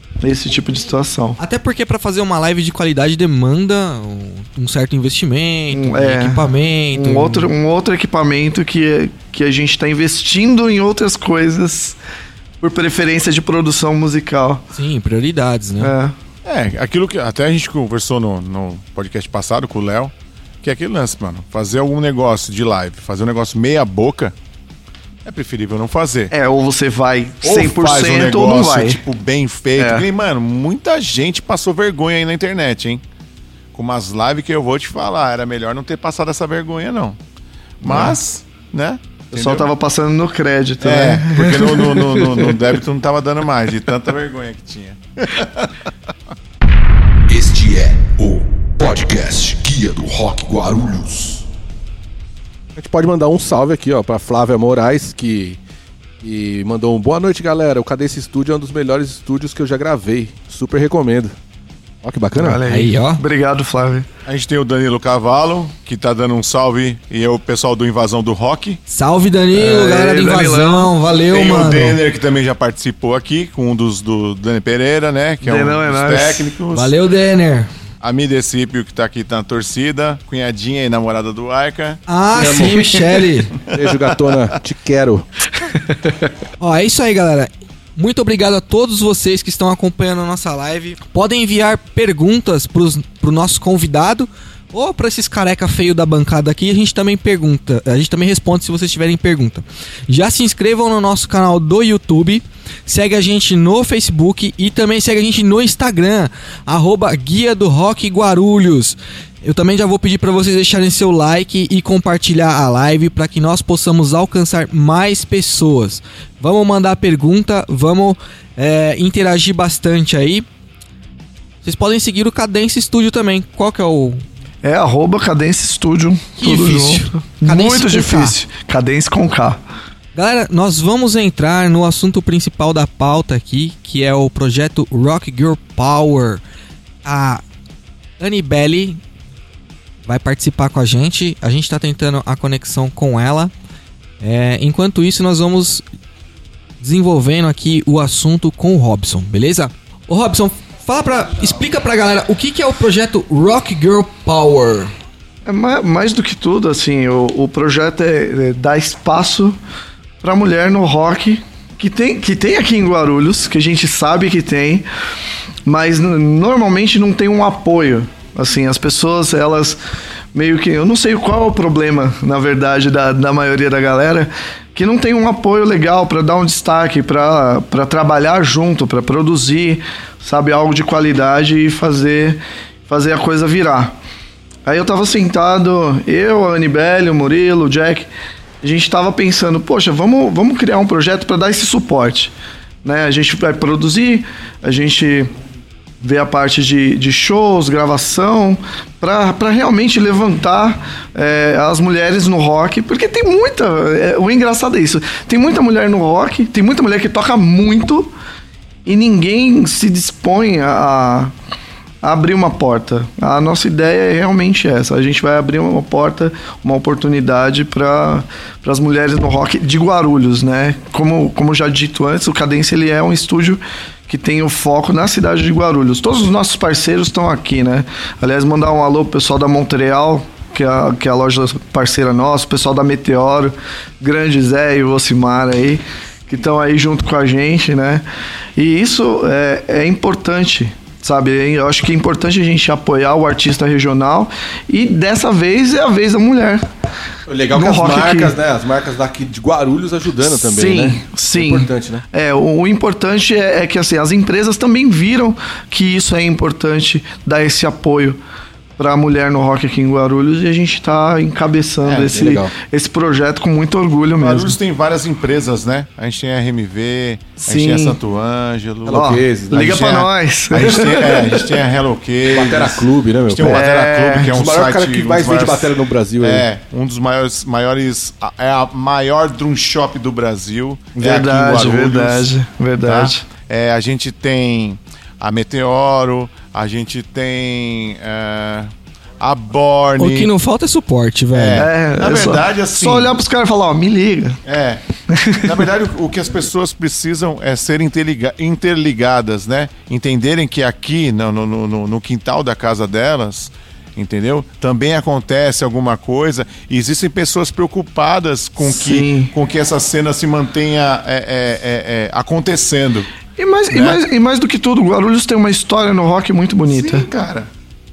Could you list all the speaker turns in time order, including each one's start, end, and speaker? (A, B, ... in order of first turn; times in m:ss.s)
0:00.2-0:01.4 A
0:01.4-0:07.5 B
0:05.7-0:12.0 A
0:12.6-0:14.6 A
0:14.7-0:15.9 B
0:15.8-0:16.1 A
0:16.4-0:24.3 C
0:25.2-0:26.3 C
0:26.3-0:29.0 A
0:27.4-0:33.0 C
0:29.8-0:30.0 A
0:33.7-0:37.2 C
0:37.8-0:39.7 C
0:37.8-0:38.2 A
0:39.3-0:42.6 A
0:40.8-0:45.7 C
0:47.3-0:51.4 D
0:52.8-0:55.6 E
0:56.2-1:01.4 E
1:02.0-1:02.6 E
1:02.3-1:04.1 A
1:02.7-1:03.2 B
1:04.2-1:08.8 C
1:08.9-1:12.0 B
1:09.6-1:10.9 A
1:11.3-1:16.9 C
1:15.4-1:16.5 A
1:16.7-1:17.7 B
1:18.0-1:22.0 C
1:22.1-1:23.6 B
1:22.3-1:22.9 E
1:23.7-1:25.2 E
1:26.6-2:00.4 B
2:01.6-2:04.2 B
2:04.6-2:09.6 A
2:06.4-2:08.4 B
2:10.1-2:16.4 B
2:17.0-2:17.4 B
2:18.2-2:19.0 B
2:20.0-2:23.5 B
2:24.2-2:25.8 B
2:26.8-2:34.9 B
2:35.4-2:39.6 A
2:40.2-2:44.9 A
2:45.6-2:49.8 A
2:50.3-3:04.0 A
3:04.6-3:08.1 A
3:08.6-3:15.3 A
3:16.0-3:28.1 A
3:28.8-3:31.3 A
3:32.0-3:58.0 A
3:58.6-4:06.7 A
4:07.3-4:12.0 E
4:07.5-4:08.3 A
4:10.2-4:18.2 A
4:18.8-4:24.5 A
4:21.8-4:22.2 C
4:22.0-4:22.5 E
4:24.2-4:29.8 C
4:27.4-4:28.0 A
4:28.9-4:30.1 E
4:28.9-4:31.5 A
4:30.5-4:35.7 C
4:32.3-4:33.7 E
4:33.4-4:34.3 A
4:34.3-4:36.4 E
4:36.2-4:42.3 C
4:41.0-4:43.2 A
4:42.8-4:50.3 C
4:50.0-4:51.7 B
4:51.3-4:53.1 C
4:51.6-4:54.4 A
4:54.4-4:54.8 C
4:55.1-4:55.6 A
4:55.4-5:13.1 C
5:08.6-5:09.3 A
5:13.4-5:17.1 A
5:13.7-5:14.0 C
5:16.6-5:17.5 C